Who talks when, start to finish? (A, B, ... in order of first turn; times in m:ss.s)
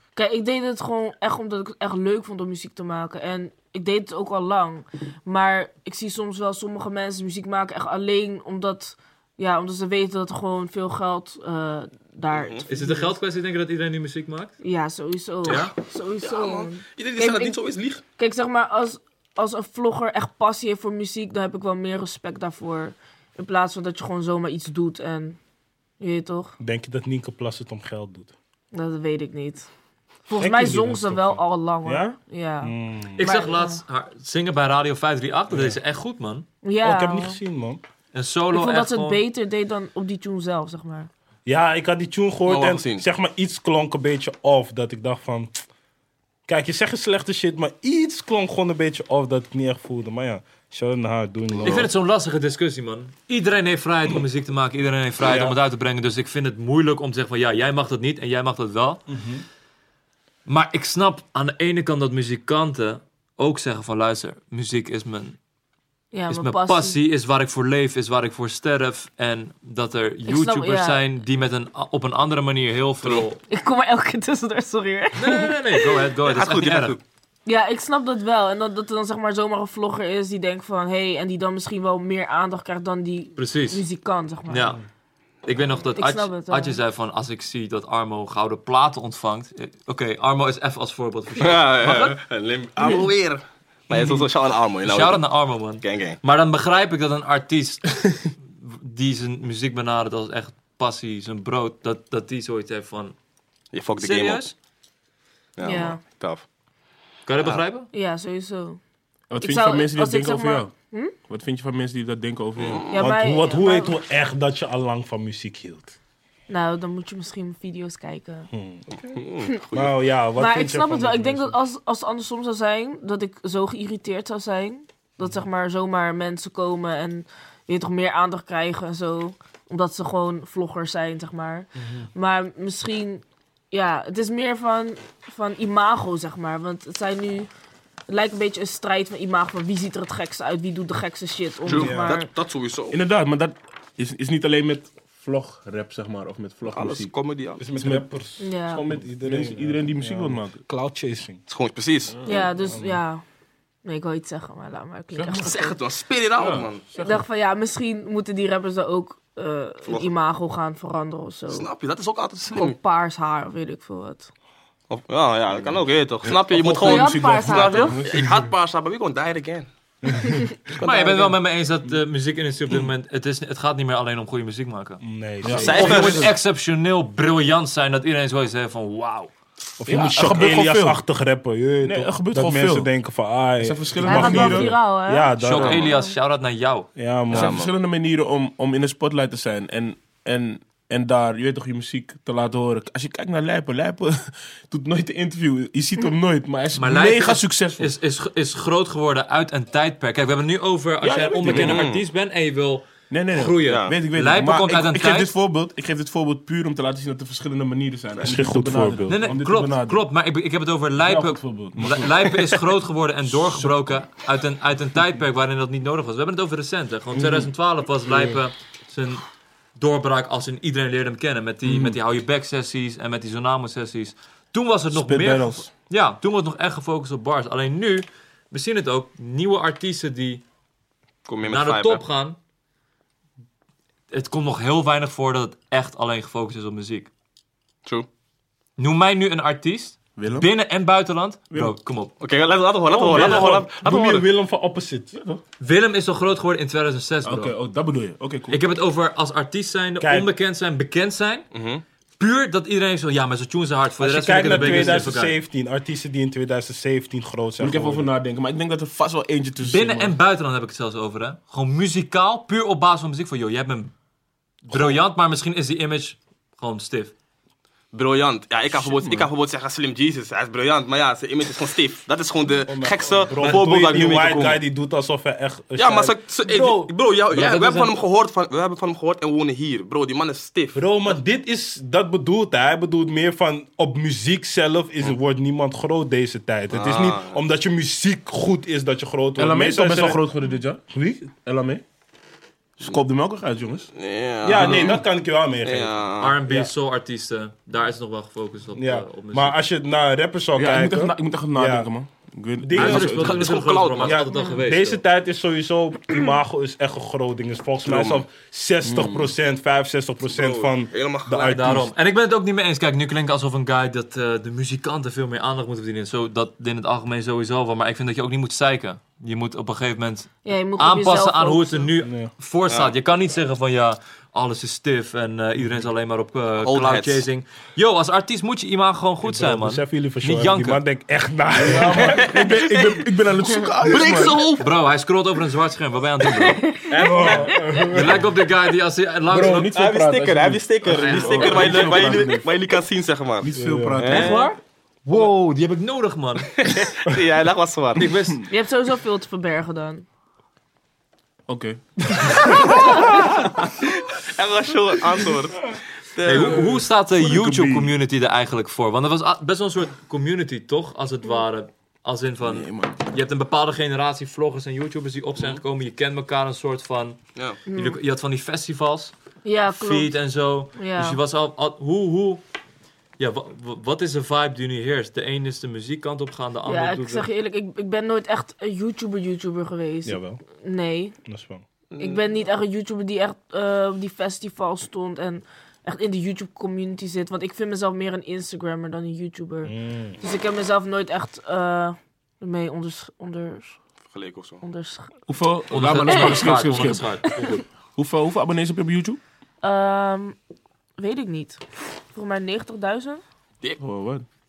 0:00.2-0:13.1 A
0:12.3-0:12.6 B
0:12.7-0:14.6 C
0:14.6-0:17.6 A
0:15.4-0:15.7 C
0:15.4-0:18.0 B
0:18.2-0:25.4 A
0:26.0-0:26.6 A
0:26.6-0:28.3 D
0:28.7-0:29.7 A
0:30.3-0:33.8 A
0:30.4-0:33.2 D
0:33.2-0:36.4 C
0:35.5-0:35.8 D
0:36.6-0:37.4 A
0:36.8-0:37.8 D
0:38.1-0:39.2 C
0:38.5-0:41.1 A
0:41.4-0:45.6 D
0:42.5-0:43.0 B
0:46.5-0:51.9 D
0:51.6-0:59.0 C
0:55.2-0:55.6 D
0:59.1-0:59.4 D
1:00.4-1:05.4 C
1:06.1-1:07.0 A
1:06.3-1:13.4 C
1:10.3-1:11.0 A
1:13.5-1:15.8 A
1:15.1-1:17.0 C
1:16.2-1:17.0 B
1:17.4-1:24.8 A
1:23.4-1:23.8 C
1:24.5-1:24.8 C
1:25.4-1:32.2 C
1:25.9-1:26.8 A
1:31.4-1:36.2 B
1:34.8-1:43.2 C
1:43.7-1:44.5 B
1:44.0-1:44.5 C
1:45.6-1:46.4 B
1:45.6-1:46.0 A
1:47.2-1:47.9 C
1:47.9-1:48.8 A
1:49.3-1:52.9 E
1:49.4-1:51.1 A
1:52.6-1:53.0 B
1:52.9-1:53.9 A
1:53.0-1:55.9 D
1:56.5-1:58.5 A
1:58.5-2:01.6 D
1:59.1-1:59.9 B
2:00.4-2:17.5 A
2:11.8-2:12.1 D
2:18.1-2:22.3 A
2:21.6-2:23.0 B
2:21.7-2:22.2 D
2:22.9-2:27.1 E
2:26.7-2:27.6 B
2:27.6-2:31.4 D
2:27.7-2:28.0 E
2:28.4-2:28.8 A
2:28.7-2:30.6 E
2:31.5-2:32.4 B
2:32.2-2:32.4 E
2:32.2-2:33.2 A
2:32.6-2:33.0 D
2:33.8-2:35.8 A
2:35.1-2:35.5 E
2:35.4-2:36.8 B
2:36.4-2:37.2 E
2:37.0-2:41.7 A
2:41.5-2:42.8 B
2:42.5-2:44.3 A
2:44.9-2:49.7 B
2:46.2-2:48.5 E
2:46.8-2:48.0 A
2:50.7-2:51.3 B
2:50.8-2:55.0 C
2:55.0-2:56.1 D
2:55.4-2:56.3 E
2:55.5-2:56.3 B
2:55.5-2:59.3 C
2:59.8-3:05.9 D
2:59.8-3:01.0 E
3:01.8-3:02.9 E
3:03.6-3:04.7 E
3:04.0-3:06.2 A
3:05.4-3:06.9 C
3:07.0-3:07.6 D
3:07.3-3:07.7 B
3:07.3-3:17.9 E
3:16.7-3:25.3 C
3:21.0-3:21.9 E
3:21.4-3:22.0 B
3:23.1-3:30.0 E
3:23.7-3:23.9 B
3:28.2-3:29.2 D
3:29.1-3:39.2 C
3:31.0-3:32.4 E
3:33.3-3:33.8 E
3:37.1-3:37.5 D
3:39.8-3:50.4 C
3:41.6-3:42.0 E
3:44.9-3:45.7 E
3:51.2-3:52.0 B
3:51.4-3:52.4 C
3:54.1-3:57.1 C
3:58.8-4:02.1 C
4:00.2-4:00.5 E
4:01.5-4:01.8 E
4:02.2-4:04.3 B
4:02.9-4:05.1 D
4:03.1-4:03.5 C
4:05.1-4:05.4 E
4:05.6-4:07.5 C
4:07.2-4:08.6 E
4:08.5-4:11.4 C
4:10.0-4:10.3 D
4:11.5-4:11.8 B
4:12.2-4:15.4 C
4:14.0-4:18.1 D
4:14.4-4:15.1 E
4:17.6-4:20.2 E
4:19.6-4:23.9 C
4:24.6-4:27.1 C
4:27.9-4:34.6 B
4:28.7-4:29.3 E
4:32.7-4:36.9 D
4:35.8-4:41.1 B
4:37.3-4:38.0 C
4:40.7-4:50.2 D
4:46.7-4:47.4 B
4:49.4-4:50.8 E
4:50.9-4:51.3 D
4:51.4-4:51.8 E
4:52.8-4:53.9 E
4:53.9-4:55.0 B
4:54.4-4:56.7 D
4:54.5-4:55.0 E
4:55.6-4:56.4 B
4:56.2-4:59.6 C
4:58.7-5:01.9 D
5:00.6-5:03.6 E
5:02.6-5:11.9 D
5:02.7-5:05.0 C
5:02.8-5:04.2 B
5:07.8-5:08.2 B
5:08.8-5:09.3 E
5:10.2-5:11.6 B
5:11.4-5:30.8 C
5:20.4-5:21.9 A
5:22.0-5:22.3 D
5:26.6-5:27.2 B
5:29.2-5:32.3 D
5:31.6-5:34.4 E
5:31.9-5:33.0 B
5:33.8-5:34.6 B
5:34.5-5:36.6 C
5:36.2-5:37.8 A
5:36.9-5:38.2 D
5:37.0-5:37.4 B
5:37.9-5:39.7 C
5:39.3-5:42.5 E
5:39.6-5:44.4 B
5:40.8-5:42.2 C
5:43.4-5:44.5 E
5:43.5-5:44.0 D
5:44.0-5:46.5 C
5:46.5-5:48.1 B
5:48.0-5:48.4 C
5:48.5-5:50.0 A
5:51.5-5:53.5 E
5:52.5-5:52.8 B
5:53.8-5:56.8 B
5:56.2-6:09.1 C
5:56.3-5:57.9 E
6:02.4-6:03.0 E
6:07.7-6:08.0 A
6:09.4-6:11.2 A
6:09.7-6:12.4 C
6:13.2-6:17.3 C
6:16.6-6:21.2 A
6:20.0-6:20.4 D
6:21.2-6:21.6 D
6:21.9-6:22.2 B
6:22.0-6:33.8 A
6:29.6-6:30.2 D
6:34.1-6:34.6 B
6:34.6-6:35.1 A
6:35.3-6:39.2 E
6:35.7-6:37.6 C
6:36.1-6:37.5 A
6:39.6-6:40.4 A
6:41.0-6:41.6 A
6:42.1-6:43.2 A
6:43.8-6:44.2 E